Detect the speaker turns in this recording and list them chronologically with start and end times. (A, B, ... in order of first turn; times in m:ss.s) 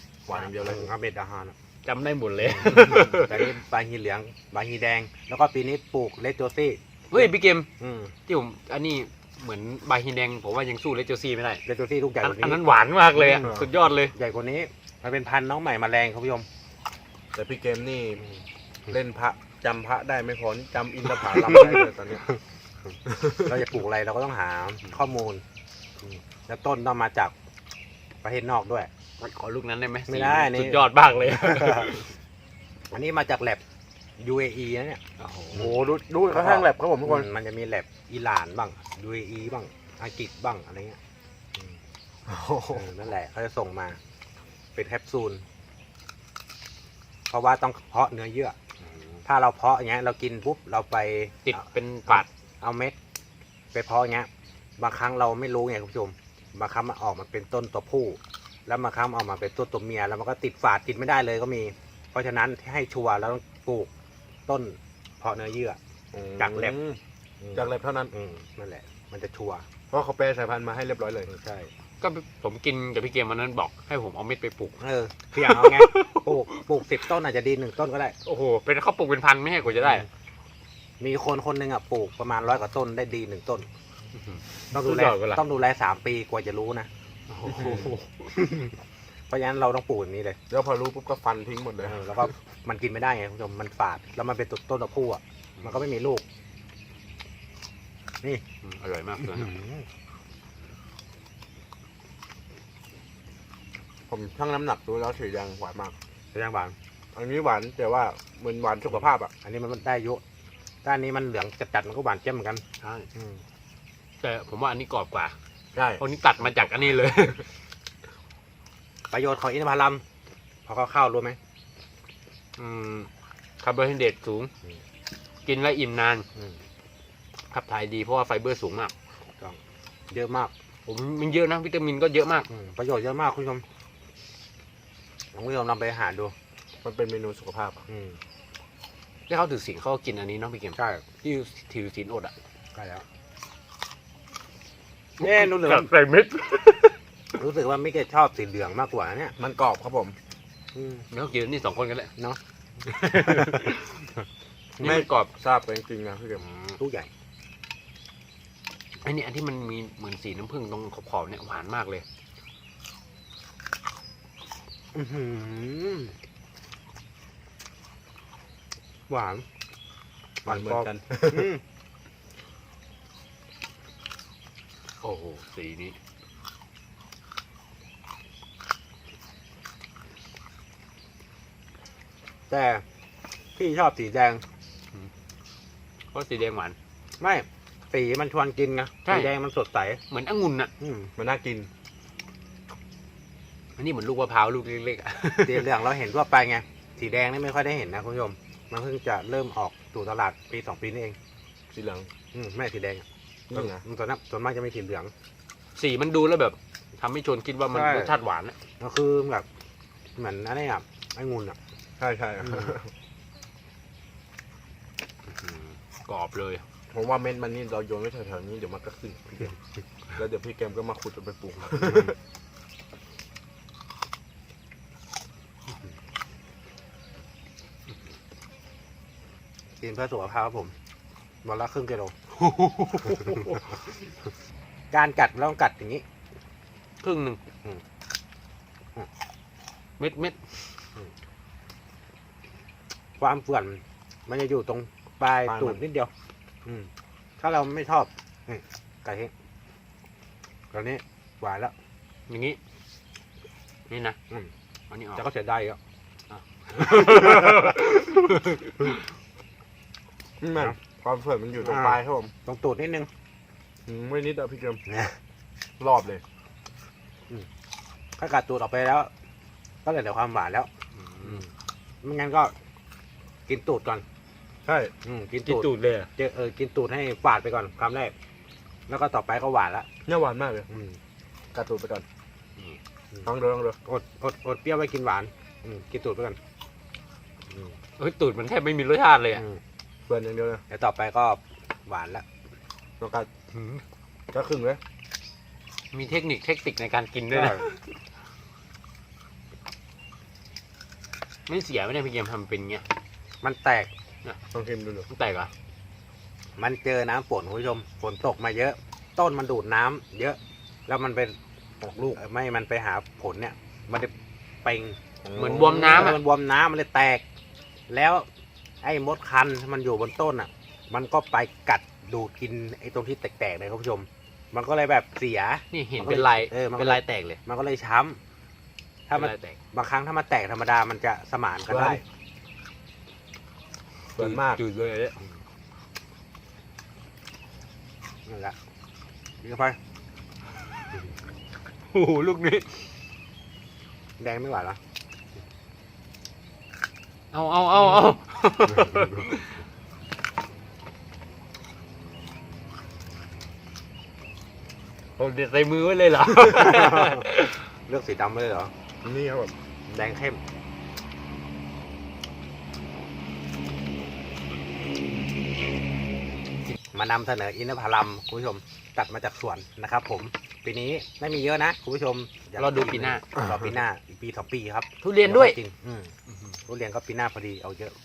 0:00.3-0:00.9 A
0:00.6-0:01.6 B
0:01.8-0:03.5 C
0:02.8-0:08.1 B
0:07.1-0:07.7 C
0:08.3-0:11.6 C
0:11.7-0:12.6 B
0:12.2-0:14.1 C
0:13.2-0:13.5 B
0:13.4-0:13.7 A
0:14.1-0:16.5 B
0:17.3-0:18.2 A
0:18.9-0:22.2 A
0:21.2-0:21.9 C
0:23.1-0:23.6 A
0:23.4-0:25.4 B
0:26.1-0:27.3 B
0:28.2-0:28.9 B
0:29.2-0:32.1 C
0:30.1-0:31.9 B
0:32.9-0:33.6 B
0:34.2-0:35.0 B
0:35.2-0:35.7 C
0:35.5-0:37.3 A
0:36.3-0:41.0 B
0:42.3-0:42.9 A
0:42.7-0:44.0 B
0:44.8-0:45.4 B
0:47.3-0:48.6 B
0:49.2-0:53.0 B
0:51.4-0:52.3 C
0:53.7-1:03.9 B
1:04.5-1:05.8 B
1:06.1-1:07.0 A
1:06.4-1:06.8 B
1:07.4-1:09.7 B
1:07.5-1:08.1 A
1:09.9-1:11.3 A
1:11.3-1:11.7 B
1:12.0-1:14.8 C
1:14.8-1:18.2 B
1:15.4-1:16.8 C
1:18.3-1:20.1 C
1:19.8-1:20.0 B
1:21.0-1:23.7 B
1:24.3-1:25.4 C
1:24.7-1:26.9 B
1:27.3-1:28.3 C
1:27.5-1:27.9 A
1:28.3-1:28.8 B
1:29.3-1:30.4 B
1:30.5-1:32.0 A
1:31.8-1:36.2 B
1:38.6-1:39.5 C
1:39.2-1:39.9 B
1:44.1-1:46.0 A
1:46.3-1:46.8 B
1:47.2-1:49.3 A
1:49.4-1:50.2 B
1:50.8-1:52.6 B
1:52.8-1:53.1 C
1:53.2-1:53.4 B
1:54.2-1:55.4 C
1:55.8-1:56.0 A
1:56.0-1:57.5 C
1:59.1-2:00.0 B
2:00.7-2:01.4 B
2:02.6-2:03.1 C
2:03.6-2:04.5 C
2:05.5-2:06.2 C
2:07.5-2:08.9 C
2:10.1-2:10.5 B
2:10.9-2:12.5 C
2:12.5-2:13.7 B
2:15.3-2:16.3 B
2:16.8-2:17.8 A
2:17.9-2:18.2 B
2:19.3-2:22.3 C
2:20.8-2:21.0 B
2:22.8-2:23.0 B
2:25.2-2:27.0 C
2:25.2-2:25.9 B
2:27.4-2:29.4 B
2:29.4-2:30.2 A
2:30.8-2:31.1 B
2:31.1-2:32.1 C
2:32.8-2:34.1 C
2:34.8-2:35.3 C
2:34.8-2:36.4 A
2:36.4-2:36.8 C
2:36.8-2:37.1 B
2:39.0-2:42.0 C
2:44.9-2:46.2 B
2:49.1-2:49.5 B
2:50.4-2:51.5 A
2:50.4-2:51.6 B
2:55.0-2:56.0 C
3:02.5-3:02.8 B
3:03.6-3:04.4 B
3:06.1-3:06.8 C
3:07.2-3:10.0 B
3:09.0-3:09.3 C
3:10.1-3:10.7 C
3:10.8-3:11.1 B
3:11.2-3:11.7 A
3:13.8-3:15.8 C
3:15.4-3:21.2 B
3:21.7-3:22.1 A
3:22.3-3:25.1 B
3:23.5-3:23.8 A
3:25.8-3:28.6 C
3:27.7-3:28.2 B
3:28.8-3:29.5 B
3:30.2-3:31.6 B
3:32.0-3:32.9 A
3:32.4-3:32.8 B
3:35.3-3:36.6 C
3:36.9-3:39.6 A
3:40.2-3:42.2 A
3:49.8-3:50.8 B
3:51.4-3:52.2 B
3:52.3-3:53.9 C
3:54.9-3:56.0 B
3:57.0-3:57.4 C
4:00.0-4:00.6 C
4:03.2-4:06.1 B
4:05.4-4:05.8 A
4:06.7-4:09.3 B
4:10.7-4:11.7 B
4:12.3-4:12.6 C
4:13.9-4:14.2 C
4:14.9-4:15.2 C
4:15.2-4:15.8 B
4:16.3-4:19.0 C
4:17.0-4:17.6 B
4:20.4-4:22.3 A
4:21.6-4:23.1 B
4:23.9-4:24.8 A
4:24.9-4:25.2 B
4:25.8-4:26.2 A
4:28.2-4:29.1 B
4:29.8-4:30.7 B
4:31.0-4:31.4 C
4:32.0-4:32.6 B
4:33.5-4:34.0 B
4:34.6-4:34.9 A
4:35.0-4:38.1 B
4:35.5-4:36.1 C
4:38.9-4:39.9 B
4:40.1-4:40.7 A
4:40.7-4:41.0 B
4:41.5-4:42.0 A
4:43.2-4:43.8 A
4:43.8-4:46.4 B
4:48.0-4:49.4 C
4:50.1-4:50.6 A
4:50.7-4:52.2 B
4:53.0-4:53.3 A
4:53.5-4:53.8 C
4:54.3-4:54.8 A
4:55.9-4:58.0 C
4:57.3-4:57.6 B
5:01.5-5:02.8 C
5:03.4-5:03.9 B
5:04.5-5:05.1 A
5:05.1-5:05.5 C
5:06.6-5:11.4 B
5:11.8-5:12.2 A
5:12.1-5:14.1 B
5:14.6-5:17.2 B
5:15.2-5:16.2 A
5:15.4-5:16.2 C
5:17.9-5:18.3 B
5:18.8-5:28.2 B
5:25.7-5:27.4 C
5:29.1-5:32.0 B
5:29.1-5:29.6 C
5:31.7-5:32.0 A
5:34.2-5:34.6 A
5:34.2-5:35.2 C
5:38.3-5:38.6 B
5:39.4-5:39.8 B
5:41.9-5:42.9 C
5:44.2-5:44.8 B
5:47.3-5:49.5 C
5:55.2-5:57.6 C
5:56.8-5:57.2 B
5:57.9-5:58.7 B
5:59.0-5:59.5 A
5:59.9-6:00.4 B
6:06.9-6:16.1 B
6:12.6-6:13.2 C
6:15.0-6:15.6 C
6:16.7-6:18.0 B